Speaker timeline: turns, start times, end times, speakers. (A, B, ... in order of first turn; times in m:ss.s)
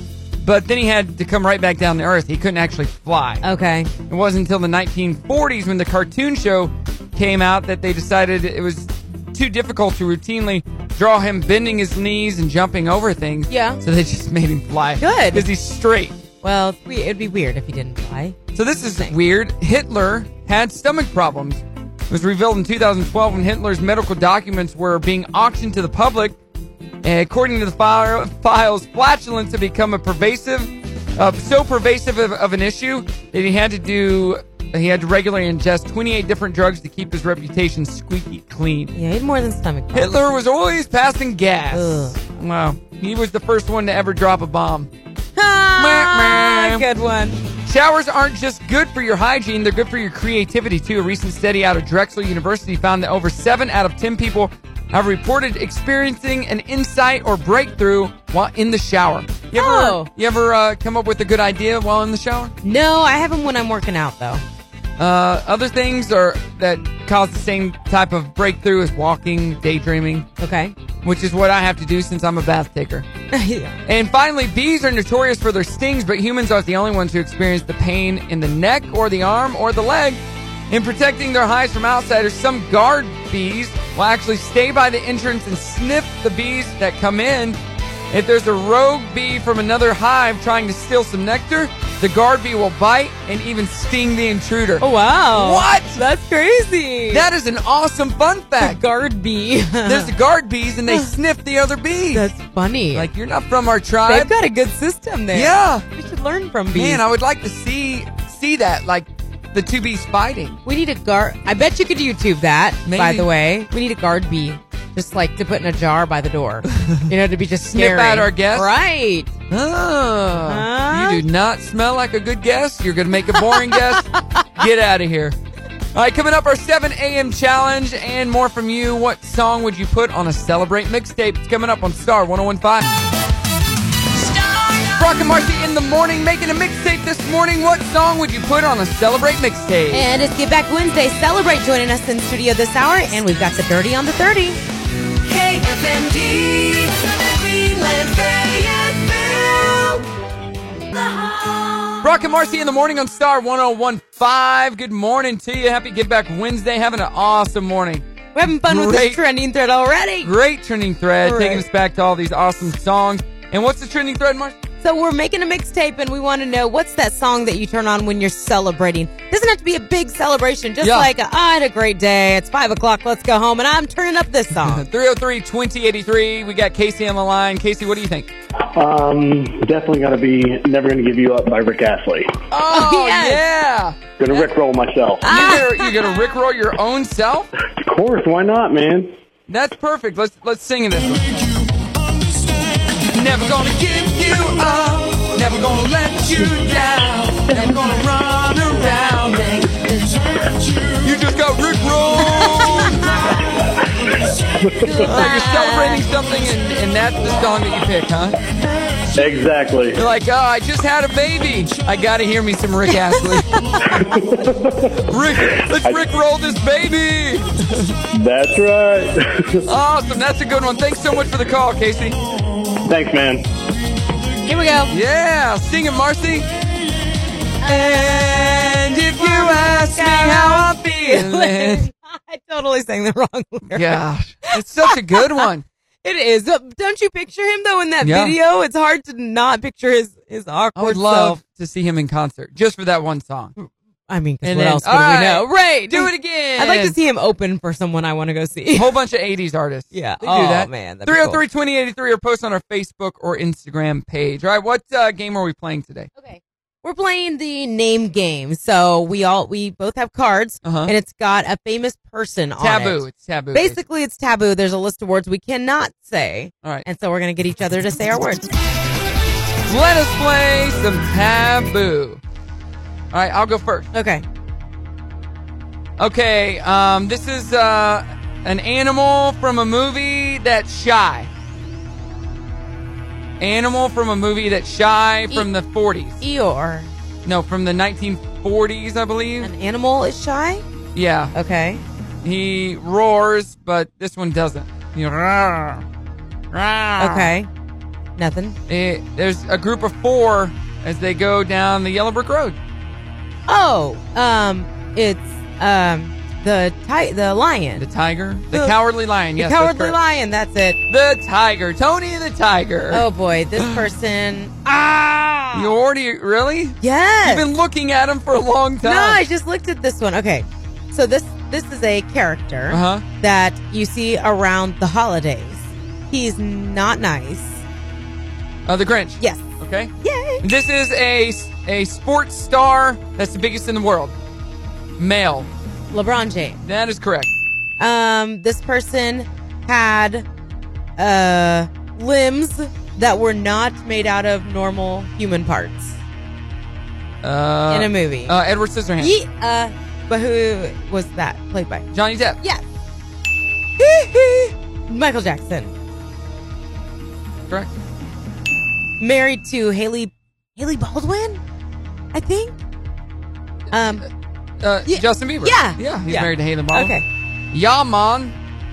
0:00.4-0:03.4 A
0:03.4-0:03.9 B
0:04.1-0:16.2 A
0:13.5-0:13.8 B
0:15.0-0:15.5 B
0:16.4-0:18.4 B
0:18.5-0:26.4 A
0:27.0-0:38.9 A
0:38.9-0:40.2 B
0:39.9-0:44.9 A
0:41.7-0:42.2 B
0:45.4-0:47.4 B
0:45.8-0:46.8 A
0:47.6-1:02.5 A
0:59.5-1:00.1 B
1:02.6-1:04.4 B
1:05.0-1:10.3 A
1:10.4-1:10.7 B
1:11.0-1:13.1 A
1:13.3-1:13.8 B
1:13.8-1:27.6 A
1:28.1-1:36.0 A
1:34.8-1:37.3 B
1:37.1-1:38.8 A
1:38.6-1:40.1 B
1:39.8-1:42.2 A
1:42.1-1:43.1 B
1:42.9-1:44.3 A
1:44.0-1:47.0 B
1:45.3-1:45.8 A
1:46.7-1:50.6 A
1:50.6-1:59.3 B
1:52.8-1:53.3 A
1:57.7-1:58.7 A
1:59.5-2:05.4 A
2:00.5-2:01.2 B
2:03.3-2:04.4 B
2:05.9-2:12.9 A
2:14.4-2:14.9 C
2:15.0-2:20.0 A
2:19.9-2:24.6 B
2:25.2-2:30.0 C
2:30.9-2:32.0 C
2:32.0-2:39.2 A
2:38.3-2:40.3 B
2:40.2-2:44.6 A
2:41.2-2:41.6 B
2:44.8-2:54.8 B
2:50.8-2:51.1 A
2:54.5-2:58.3 A
2:58.8-3:02.3 D
3:02.5-3:04.5 A
3:02.7-3:03.4 B
3:04.2-3:05.3 D
3:05.2-3:06.0 B
3:05.2-3:07.5 A
3:07.8-3:09.1 D
3:09.5-3:11.4 A
3:13.1-3:19.6 A
3:21.0-3:23.2 A
3:24.6-3:25.1 D
3:24.8-3:26.0 B
3:25.0-3:28.4 A
3:29.2-3:30.0 D
3:29.9-3:33.5 A
3:33.1-3:33.8 B
3:33.9-3:35.0 D
3:35.1-3:37.9 A
3:35.5-3:36.0 D
3:38.1-3:39.6 D
3:39.6-3:42.2 A
3:42.8-3:43.4 D
3:44.4-3:44.9 B
3:44.9-3:46.5 A
3:47.6-3:51.8 A
3:47.8-3:55.4 B
3:53.7-3:55.6 A
3:56.0-4:01.4 B
3:58.0-3:58.4 A
4:00.8-4:03.5 A
4:03.6-4:08.9 B
4:04.4-4:07.0 A
4:08.7-4:16.1 A
4:09.9-4:11.4 B
4:16.2-4:23.0 B
4:20.6-4:20.9 A
4:22.6-4:23.8 A
4:23.5-4:28.5 B
4:29.7-4:32.2 A
4:33.1-4:33.9 A
4:33.9-4:34.2 B
4:36.0-4:41.3 A
4:43.4-4:46.2 A
4:46.2-4:46.9 B
4:47.2-4:49.5 A
4:49.4-4:50.6 B
4:50.9-4:51.3 A
4:51.3-4:51.8 B
4:52.2-4:55.8 A
4:56.5-4:57.3 A
4:57.0-4:57.5 B
4:58.2-4:58.6 B
4:58.7-5:02.6 A
5:03.5-5:07.8 B
5:07.8-5:10.0 A
5:08.5-5:08.8 B
5:09.4-5:10.8 B
5:10.9-5:13.0 A
5:12.9-5:15.7 B
5:15.5-5:19.2 A
5:16.8-5:17.5 B
5:18.8-5:27.6 B
5:22.7-5:23.0 A
5:28.7-5:34.1 A
5:29.2-5:29.4 B
5:30.0-5:30.4 B
5:35.0-5:35.5 A
5:35.9-5:36.6 B
5:36.6-5:37.3 A
5:37.8-5:40.2 B
5:41.0-5:46.0 B
5:47.2-5:49.1 A
5:47.7-5:48.3 B
5:49.0-5:51.9 B
5:51.9-5:52.4 A
5:53.8-5:55.7 B
5:59.0-6:01.4 B
6:02.1-6:02.5 B
6:03.7-6:04.0 B
6:04.6-6:06.9 A
6:04.8-6:07.0 B
6:07.5-6:08.3 A